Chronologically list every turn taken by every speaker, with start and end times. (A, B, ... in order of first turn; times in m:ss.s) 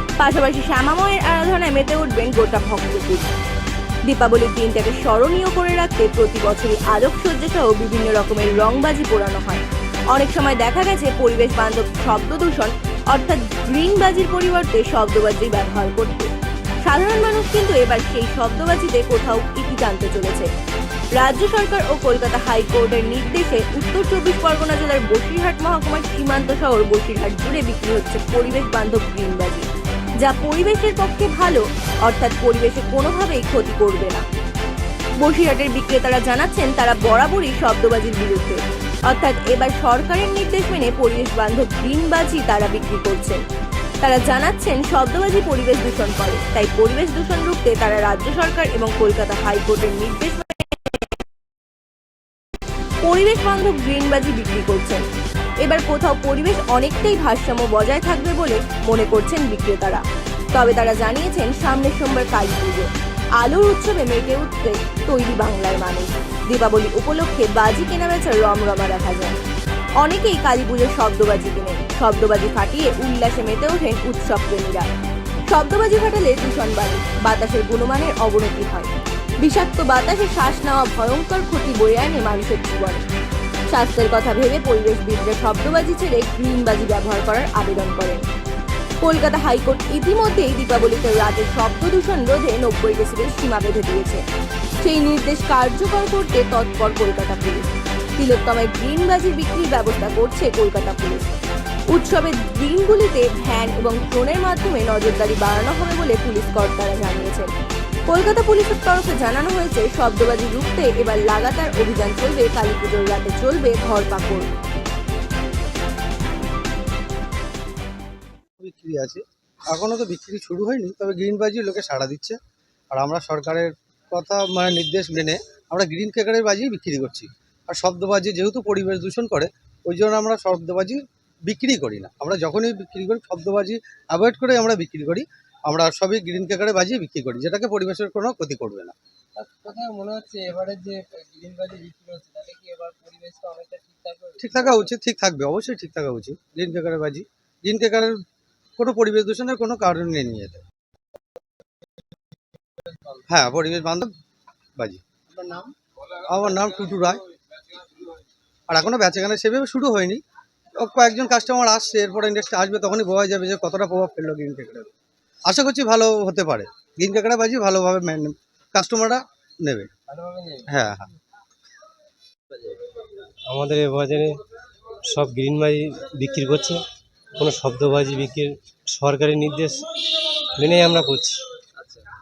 0:00.2-0:03.3 A
0:04.0-0:16.3 A
0:16.8-0:20.5 A
0:21.2-0:29.7 A
0:30.2-0:34.2 A
0:35.2-0:43.4 A
0:44.0-0:51.1 A
0:53.0-0:55.1 A
0:55.6-1:09.5 A
1:10.0-1:14.9 A
1:15.5-1:23.1 A
1:23.7-1:28.2 A
1:29.0-1:34.2 A
1:34.8-1:41.3 A
1:41.9-1:47.5 A
1:48.1-1:54.5 A
1:58.6-2:02.4 B
2:02.9-2:19.0 B
2:19.4-2:24.9 C
2:24.4-2:28.2 B
2:28.8-2:30.6 B
2:32.8-2:33.2 C
2:33.3-2:34.1 B
2:34.8-2:35.0 B
2:35.3-2:35.7 C
2:36.3-2:37.2 B
2:38.7-2:40.2 B
2:40.8-2:44.9 B
2:45.5-2:49.9 B
2:50.1-2:50.7 C
2:50.7-2:51.1 B
2:52.5-2:52.8 C
2:53.5-2:54.4 D
2:55.1-2:56.8 D
2:57.4-2:59.8 D
3:00.6-3:01.4 D
3:01.8-3:02.1 C